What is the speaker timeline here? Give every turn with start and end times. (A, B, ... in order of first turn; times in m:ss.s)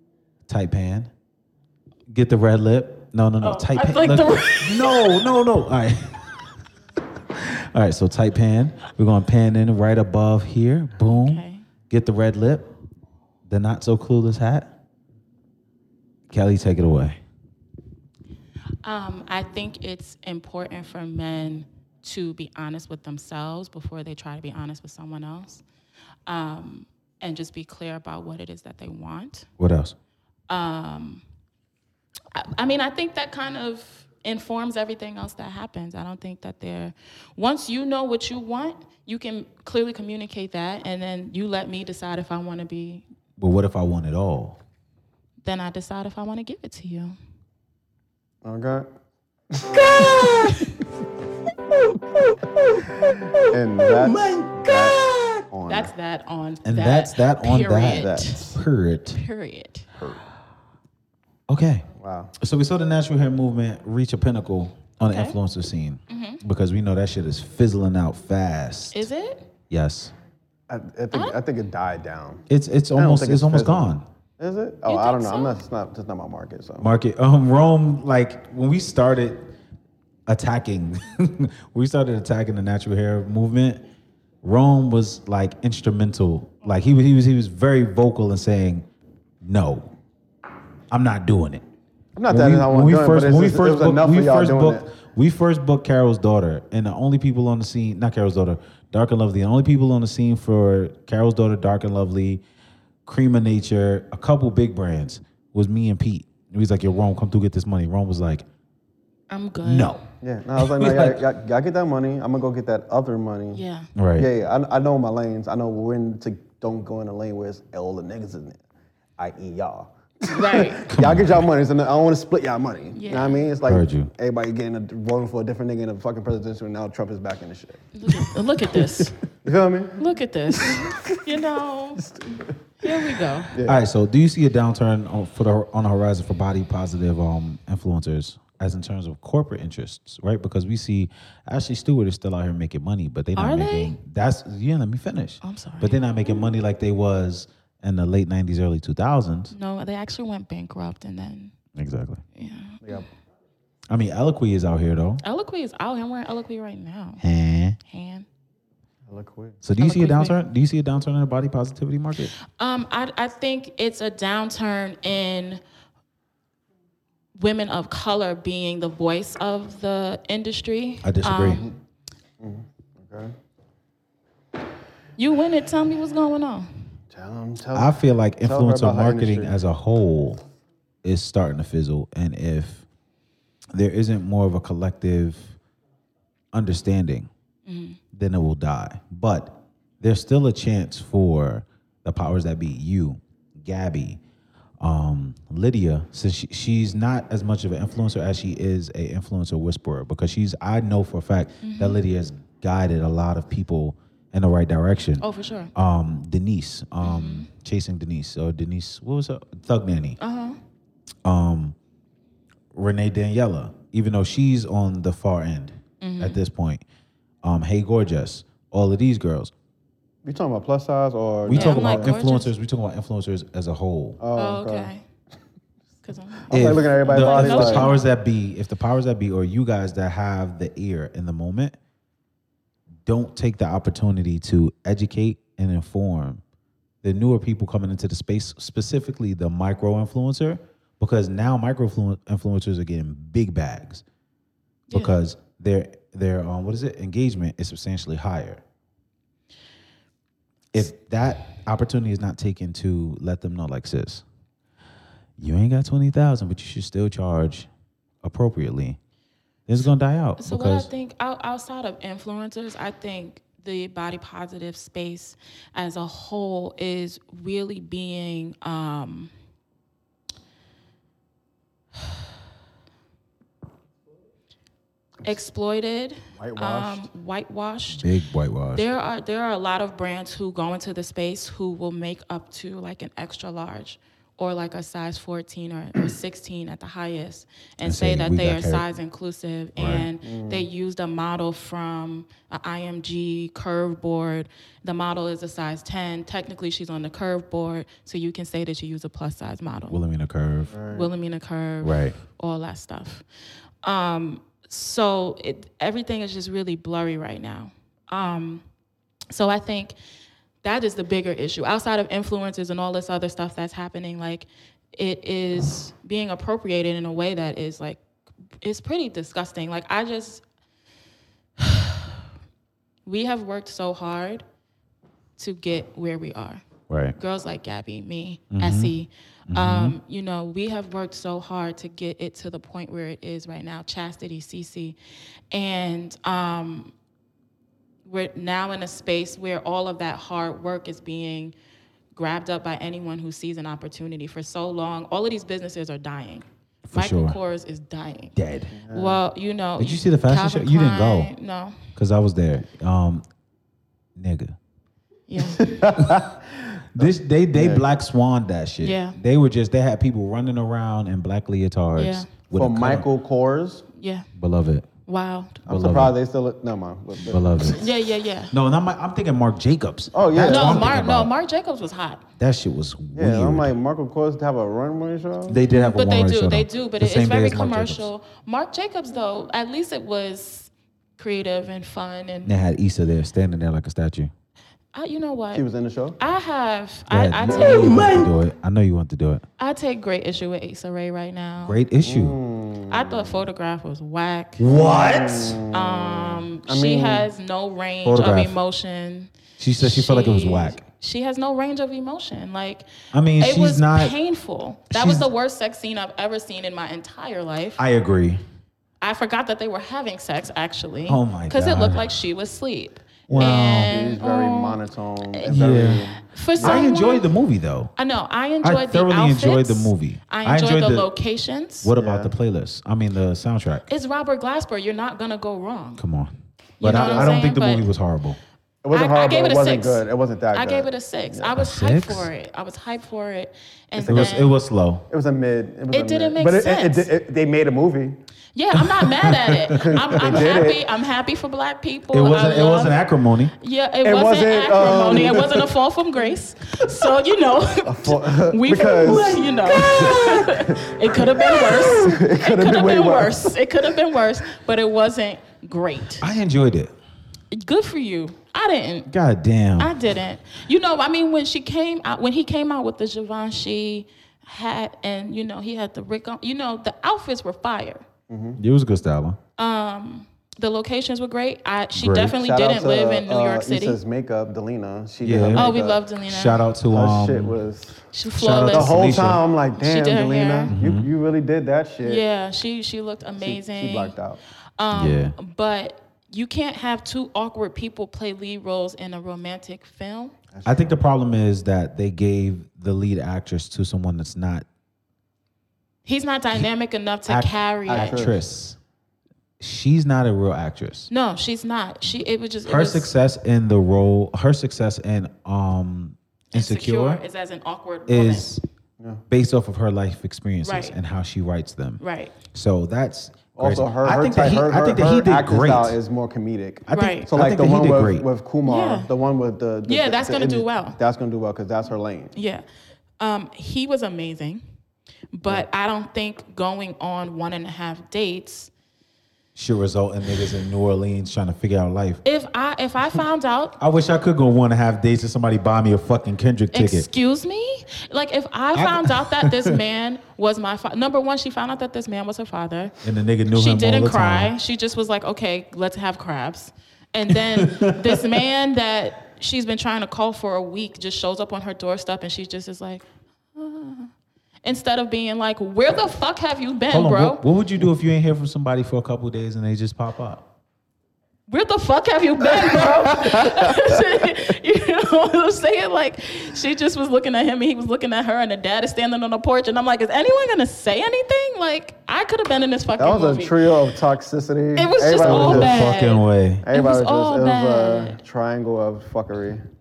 0:00.5-0:01.1 A
0:02.1-0:06.4 A
0:03.4-0:05.2 B
0:07.3-0:12.7 A
0:11.0-0:11.7 B
0:13.5-0:14.8 A
0:16.3-0:17.2 A
0:18.8-0:25.6 B
0:26.3-0:29.5 B
0:29.6-0:30.0 A
0:30.5-0:31.2 B
0:32.3-0:43.0 B
0:43.4-0:44.6 A
0:45.4-0:47.2 B
0:48.4-0:48.9 C
0:49.5-0:50.5 C
0:50.2-0:50.8 B
0:53.4-0:55.9 C
0:54.1-0:55.3 A
0:55.7-0:58.6 B
0:56.6-0:59.2 A
0:57.8-0:58.5 C
0:59.1-0:59.9 B
1:00.0-1:00.2 C
1:01.5-1:01.9 A
1:02.0-1:02.3 C
1:02.4-1:09.1 A
1:05.0-1:05.4 B
1:06.1-1:06.4 B
1:08.9-1:09.4 B
1:09.7-1:10.1 A
1:10.7-1:16.9 C
1:11.1-1:11.4 B
1:12.5-1:14.1 A
1:14.9-1:15.6 B
1:16.8-1:19.5 A
1:20.3-1:23.8 A
1:24.4-1:28.9 A
1:29.4-1:29.9 A
1:30.9-1:31.6 A
1:32.2-1:34.9 C
1:32.3-1:42.4 A
1:43.1-1:48.4 A
1:49.3-1:50.0 B
1:49.6-1:50.0 A
1:50.2-1:53.6 C
1:50.6-1:51.2 A
1:53.5-1:53.9 B
1:54.0-1:54.3 A
1:54.2-1:58.6 C
1:59.2-2:10.0 C
2:00.3-2:00.8 B
2:00.9-2:01.5 A
2:02.9-2:03.5 B
2:03.6-2:04.1 A
2:08.0-2:09.2 B
2:10.0-2:12.1 B
2:10.6-2:11.2 C
2:12.0-2:12.5 C
2:12.8-2:13.5 B
2:13.5-2:13.8 C
2:13.6-2:29.5 A
2:23.4-2:24.0 B
2:25.4-2:26.4 B
2:29.5-2:31.6 B
2:31.7-2:32.2 A
2:32.4-2:33.1 B
2:33.9-2:35.2 A
2:35.2-2:37.2 B
2:37.2-2:37.8 A
2:37.8-2:38.3 B
2:39.1-2:39.6 C
2:39.6-2:42.3 A
2:39.8-2:40.4 B
2:42.4-2:45.6 B
2:47.4-2:51.7 B
2:51.0-2:51.6 A
2:51.5-2:51.7 C
2:52.4-2:53.4 C
2:55.2-2:56.7 B
2:57.1-2:59.6 C
2:57.7-3:00.4 A
3:01.0-3:02.8 A
3:03.7-3:05.6 A
3:06.5-3:07.3 A
3:07.7-3:08.0 B
3:08.1-3:14.2 A
3:14.8-3:30.2 A
3:21.6-3:22.0 B
3:25.2-3:25.7 B
3:27.0-3:27.5 B
3:30.2-3:30.6 B
3:31.2-3:31.8 A
3:32.7-3:36.8 A
3:36.0-3:36.4 B
3:37.4-3:39.5 A
3:40.2-3:42.2 C
3:41.5-3:44.2 A
3:41.5-3:42.5 B
3:44.2-3:44.9 C
3:44.4-3:45.0 B
3:46.0-3:48.0 B
3:46.5-3:47.9 C
3:46.5-3:51.8 A
3:53.1-3:56.4 A
3:57.0-4:04.0 A
4:04.9-4:05.2 B
4:04.9-4:08.6 A
4:10.7-4:14.2 A
4:15.4-4:17.7 A
4:18.2-4:19.0 A
4:19.7-4:20.9 A
4:20.4-4:29.3 B
4:35.2-4:38.1 B
4:36.3-4:37.1 C
4:37.9-4:38.9 A
4:38.7-5:00.0 B
4:47.8-4:48.9 A
4:49.8-4:50.1 A
4:50.2-4:50.7 C
4:59.9-5:00.7 A
5:00.7-5:01.1 C
5:00.9-5:03.2 B
5:01.8-5:02.2 A
5:03.8-5:08.6 B
5:09.3-5:10.0 B
5:10.6-5:18.0 B
5:18.6-5:20.4 B
5:21.6-5:22.2 B
5:23.1-5:24.4 B
5:25.4-5:26.6 B
5:26.9-5:27.2 A
5:27.2-5:35.0 B
5:28.5-5:28.9 A
5:29.5-5:30.0 A
5:35.5-5:36.9 B
5:38.0-5:41.6 B
5:42.1-5:48.4 B
5:46.9-5:47.4 A
5:48.4-5:48.7 A
5:48.7-5:49.2 C
5:48.9-5:51.8 B
5:49.8-5:51.3 A
5:52.0-5:53.2 A
5:54.2-5:54.6 A
5:55.3-5:55.9 B
5:55.4-5:57.8 C
5:56.0-5:56.3 A
5:57.0-6:03.0 A
5:58.8-5:59.2 B
6:02.0-6:02.3 B
6:02.5-6:03.9 C
6:04.0-6:04.3 B
6:04.4-6:04.9 A
6:05.1-6:05.6 B
6:05.7-6:07.8 C
6:05.7-6:06.2 A
6:07.3-6:07.8 A
6:07.7-6:08.5 B
6:08.5-6:11.3 A
6:10.1-6:11.0 C
6:10.4-6:12.3 B
6:12.4-6:13.8 A
6:13.2-6:15.6 C
6:15.5-6:18.1 A
6:15.7-6:22.5 B
6:22.4-6:24.3 A
6:24.9-6:25.6 B
6:25.5-6:26.2 C
6:26.2-6:28.2 B
6:27.1-6:29.4 A
6:27.5-6:28.3 C
6:29.6-6:31.8 B
6:31.6-6:32.4 A
6:32.0-6:33.4 C
6:32.9-6:34.6 B
6:34.6-6:35.6 A
6:34.7-6:37.3 C
6:35.7-6:42.9 B
6:38.0-6:38.6 A
6:39.6-6:40.8 A
6:43.1-6:44.2 A
6:43.4-6:47.8 B
6:44.9-6:45.3 A
6:47.8-6:48.4 A
6:49.0-6:54.8 B
6:51.1-6:52.1 A
6:53.3-6:53.9 A
6:53.3-6:56.9 C
6:55.5-6:57.9 A
6:56.2-6:57.3 B
6:58.0-7:01.9 B
6:58.6-7:01.1 A
7:01.8-7:03.9 A
7:02.0-7:02.3 C
7:03.9-7:06.0 B
7:06.0-7:08.4 A
7:06.8-7:07.9 B
7:06.9-7:07.4 C
7:08.8-7:11.6 C
7:08.9-7:14.5 B
7:11.6-7:12.3 A
7:14.0-7:14.4 C
7:14.1-7:15.1 A
7:15.1-7:18.2 C
7:15.9-7:17.1 B
7:18.5-7:23.0 B
7:18.8-7:20.6 A
7:19.7-7:20.9 C
7:22.1-7:23.5 A
7:23.6-7:36.3 B
7:24.0-7:25.7 C
7:27.8-7:33.6 C
7:36.2-7:36.9 A
7:37.5-7:39.1 B
7:39.1-7:39.9 A
7:39.8-7:48.0 B
7:48.3-7:48.6 C
7:48.6-7:49.4 A
7:49.6-7:54.0 B
7:51.9-7:52.4 A
7:52.4-7:56.0 C
7:55.2-7:57.6 A
7:55.5-7:56.7 B
7:56.9-7:58.1 C
7:58.1-8:00.7 B
7:58.4-7:59.4 A
7:58.6-8:02.2 C
8:00.7-8:01.1 A
8:02.0-8:04.2 B
8:03.4-8:04.4 C
8:04.8-8:10.3 B
8:04.9-8:05.4 A
8:10.5-8:11.0 C
8:10.6-8:14.7 A
8:16.0-8:18.2 B
8:17.3-8:18.8 A
8:17.9-8:18.4 C
8:19.6-8:21.1 A
8:21.1-8:23.1 B
8:22.7-8:27.2 A
8:26.5-8:28.5 B
8:28.1-8:28.6 A
8:29.3-8:32.0 A
8:30.6-8:31.0 B
8:32.0-8:32.4 B
8:32.5-8:36.0 A
8:33.6-8:42.3 C
8:36.9-8:38.2 A
8:36.9-8:37.3 B
8:38.6-8:39.1 B
8:39.9-8:41.0 B
8:42.4-8:42.6 B
8:43.2-8:44.6 B
8:45.3-8:48.7 B
8:49.6-8:52.2 A
8:52.2-8:53.8 B
8:53.8-8:57.1 A
8:56.7-9:03.0 B
8:58.7-8:59.8 A
9:03.0-9:04.5 A
9:03.5-9:14.1 B
9:07.3-9:08.2 A
9:14.6-9:17.4 B
9:16.9-9:20.5 A
9:21.5-9:33.7 B
9:23.1-9:24.0 C
9:33.0-9:35.9 C
9:34.8-9:38.2 B
9:35.2-9:36.7 A
9:36.6-9:39.7 C